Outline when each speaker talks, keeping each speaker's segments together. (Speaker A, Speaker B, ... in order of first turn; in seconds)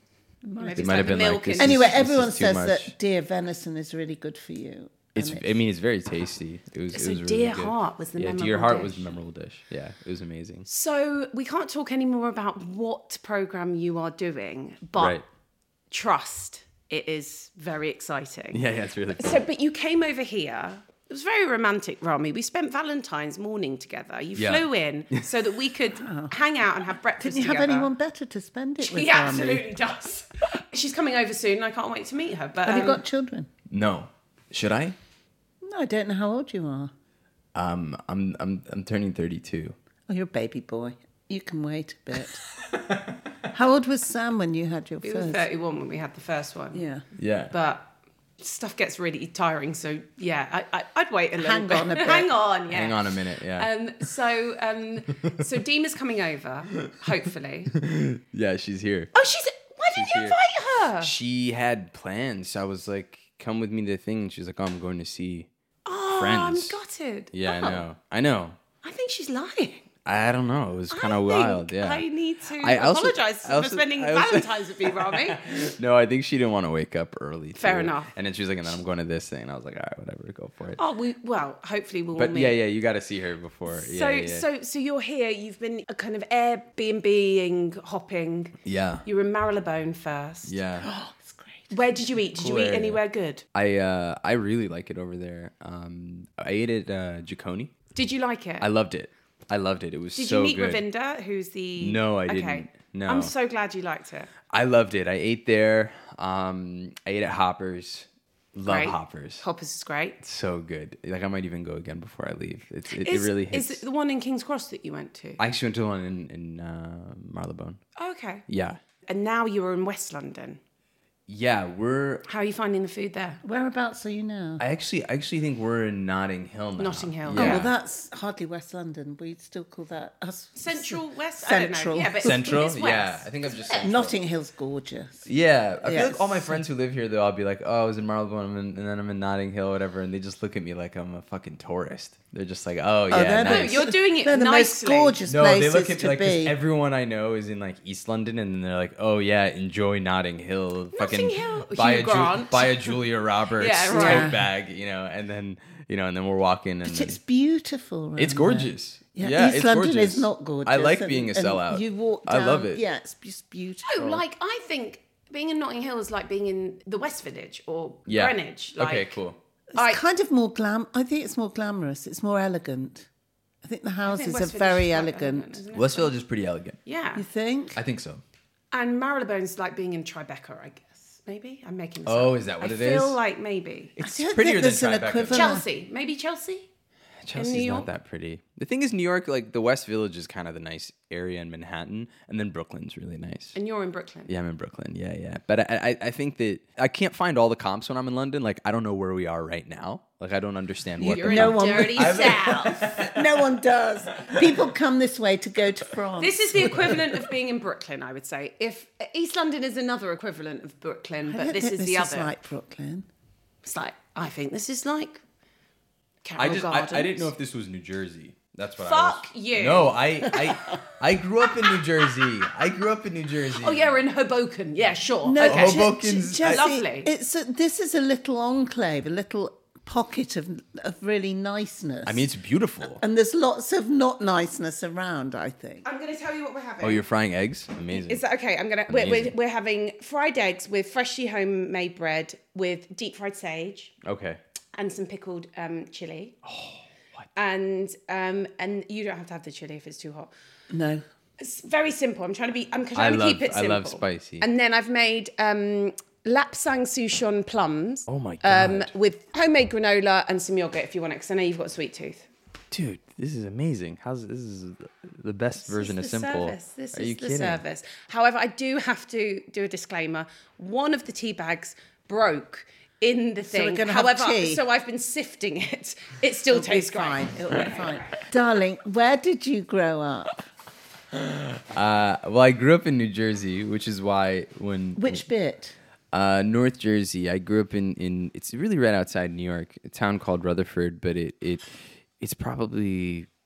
Speaker A: 0.4-5.5, 26.0-26.3, 27.2-29.6, 32.6-33.5, 35.6-36.9, 40.1-42.4, 43.5-45.5, 46.7-47.0, 51.4-52.3, 90.8-91.8, 123.4-124.6, 127.3-132.6, 133.7-135.3, 135.8-136.6, 143.1-146.6, 153.9-154.5, 156.8-164.2, 169.7-173.1, 173.6-175.6, 177.2-177.8, 184.0-185.7, 201.0-207.0, 211.3-213.1, 225.2-232.3, 232.9-235.8, 250.7-251.0, 273.5-274.6, 276.5-280.4, 284.9-285.8
Speaker B: 0.6-2.1, 6.9-9.1, 10.7-15.2, 15.9-18.6, 19.1-27.9, 28.8-33.0, 45.0-46.8, 47.5-57.7, 59.1-61.1, 65.8-67.8, 68.8-69.8, 70.9-75.4, 77.5-78.1, 80.8-82.6, 83.7-90.5, 91.7-93.4, 97.9-98.7, 100.1-104.3, 108.6-110.2, 112.9-115.4, 118.0-118.4, 119.1-120.6, 122.2-123.4, 126.8-127.7, 130.6-133.9, 143.4-145.2, 150.9-153.0, 153.6-154.3, 163.8-169.2, 169.7-170.0, 174.0-176.1, 176.8-177.2, 178.7-183.9, 185.3-186.7, 187.3-187.9, 193.5-194.3, 201.0-203.0, 206.2-212.3, 213.6-215.2, 216.2-217.3, 218.8-220.0, 223.6-227.1, 235.8-237.0, 237.9-243.9, 244.7-246.3, 247.3-250.3, 251.4-262.3, 265.6-278.2
Speaker C: 0.8-2.9, 5.1-10.7, 14.9-15.2, 18.5-19.4, 24.4-25.2, 33.7-35.0, 37.5-39.7, 47.2-47.5, 52.7-53.7, 57.7-59.1, 59.9-60.4, 61.0-65.5, 66.1-66.8, 67.3-68.6, 70.0-72.0, 72.6-80.8, 82.2-84.5, 88.6-89.0, 90.5-90.9, 92.3-93.0, 93.5-97.7, 98.6-100.8, 101.8-103.3, 104.5-109.4, 110.2-113.8, 115.4-117.8, 118.5-118.8, 121.3-122.2, 124.6-127.7, 132.2-134.2, 135.2-143.9, 145.3-157.2, 158.2-162.8, 168.1-169.4, 175.7-176.8, 177.7-178.2, 182.1-183.2, 184.0-185.6, 187.2-193.6, 194.3-203.4, 216.4-223.9, 225.4-226.6, 232.0-233.0, 236.8-238.2, 238.9-239.3, 244.0-244.4, 246.4-247.2, 252.9-254.5, 258.1-258.9, 262.7-267.6, 281.1-285.2, 286.1-293.3